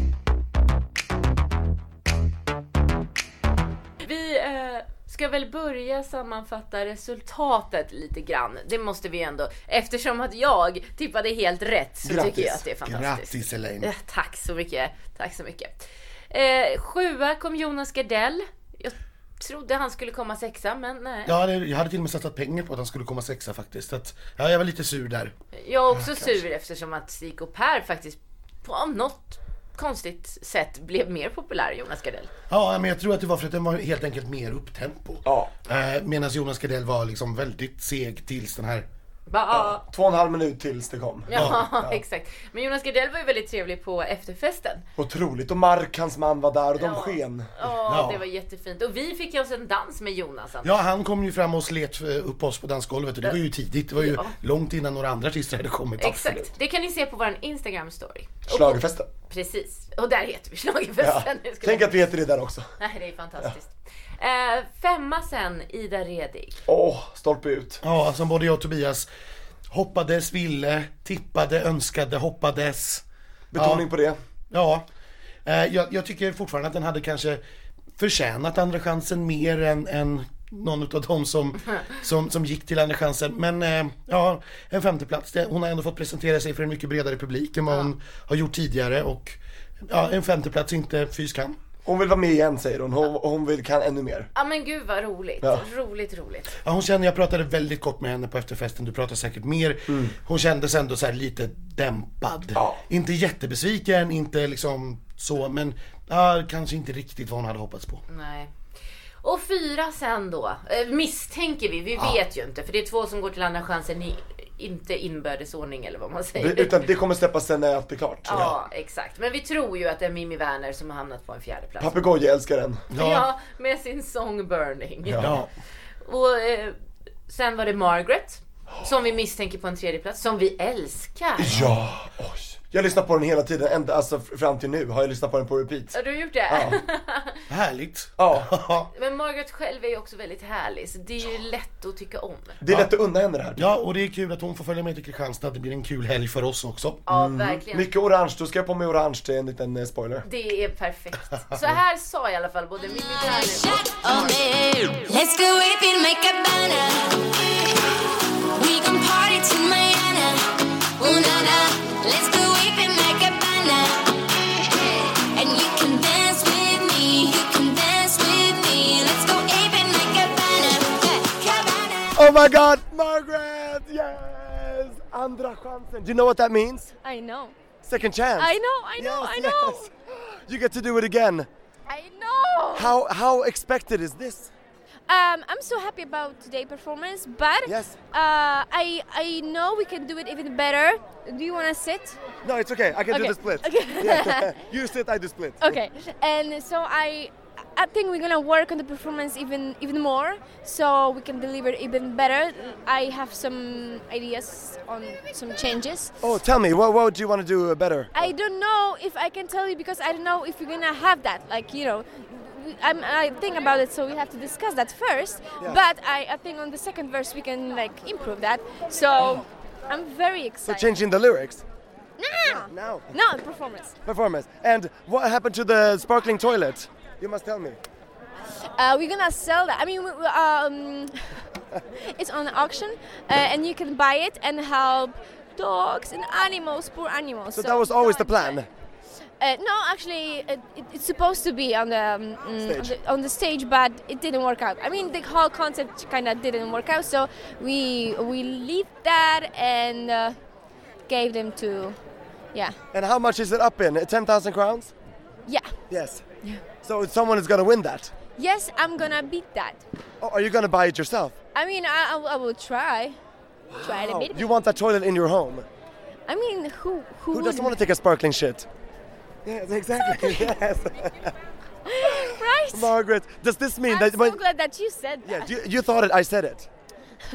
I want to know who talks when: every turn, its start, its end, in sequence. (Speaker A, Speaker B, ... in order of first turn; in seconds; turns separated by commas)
Speaker A: 4.0-15.8, Speaker B: 12.0-12.7, Speaker C: 12.8-13.9, Speaker A: 16.3-21.4, Speaker C: 21.2-25.3, Speaker A: 25.5-32.3, Speaker C: 32.5-38.9, Speaker B: 35.2-35.5, Speaker A: 39.3-39.8, Speaker B: 39.5-42.0, Speaker A: 41.2-44.8, Speaker C: 41.3-41.6, Speaker B: 45.0-47.5, Speaker A: 46.8-50.8, Speaker C: 47.9-48.2, Speaker C: 50.6-56.5, Speaker A: 53.2-54.3, Speaker A: 56.0-62.0, Speaker B: 58.5-59.1, Speaker B: 61.0-62.6, Speaker A: 62.8-66.6, Speaker B: 66.7-67.8, Speaker C: 67.8-69.1, Speaker C: 69.7-73.0, Speaker B: 73.5-74.2, Speaker C: 73.5-73.9, Speaker C: 74.5-74.8, Speaker C: 75.4-77.4, Speaker C: 78.0-91.6, Speaker B: 91.8-94.3, Speaker A: 94.3-96.5, Speaker B: 95.4-95.7, Speaker C: 96.6-108.0, Speaker B: 102.5-102.8, Speaker A: 108.1-108.5, Speaker A: 109.2-116.8, Speaker B: 116.3-118.5, Speaker A: 118.2-122.0, Speaker B: 121.8-122.8, Speaker C: 122.9-123.3, Speaker A: 122.9-125.4, Speaker B: 125.0-125.3, Speaker C: 125.2-125.5, Speaker A: 126.0-126.7, Speaker A: 127.3-131.5, Speaker B: 131.4-136.0, Speaker C: 131.5-131.8, Speaker A: 135.9-137.4, Speaker B: 136.5-136.8, Speaker C: 137.5-138.9, Speaker B: 138.2-138.5, Speaker A: 138.9-142.6, Speaker B: 142.6-143.7, Speaker C: 143.6-147.0, Speaker A: 147.1-147.9, Speaker B: 147.1-150.2, Speaker A: 150.2-154.4, Speaker D: 153.3-156.9, Speaker D: 158.6-160.2, Speaker E: 159.5-160.3, Speaker D: 161.0-163.8, Speaker E: 161.4-163.6, Speaker E: 165.3-172.1, Speaker D: 166.3-169.0, Speaker B: 172.1-176.9, Speaker E: 177.0-177.5, Speaker B: 177.8-181.5, Speaker E: 178.3-179.9, Speaker E: 181.9-183.0, Speaker B: 182.7-184.5, Speaker E: 185.1-192.2, Speaker B: 187.6-188.0, Speaker B: 192.4-195.8, Speaker E: 193.1-194.5, Speaker E: 195.6-206.2, Speaker B: 206.2-208.1, Speaker E: 208.1-221.0, Speaker B: 220.6-221.6, Speaker E: 222.2-223.9, Speaker B: 222.4-223.1, Speaker B: 224.0-227.8, Speaker E: 228.8-231.4, Speaker E: 232.1-238.6, Speaker B: 237.5-238.7, Speaker E: 239.4-250.4, Speaker B: 242.6-242.9, Speaker E: 251.1-252.0, Speaker B: 252.9-254.9, Speaker E: 255.5-255.7, Speaker B: 255.9-256.2, Speaker B: 256.8-258.1, Speaker E: 258.4-259.8, Speaker B: 260.2-261.4, Speaker E: 261.5-263.2, Speaker B: 263.7-265.7, Speaker E: 263.8-264.5, Speaker E: 266.3-267.7, Speaker B: 267.3-268.7, Speaker B: 269.4-271.3, Speaker E: 270.0-270.5, Speaker E: 271.9-272.9, Speaker B: 272.0-274.4, Speaker E: 273.9-275.5, Speaker B: 275.2-276.7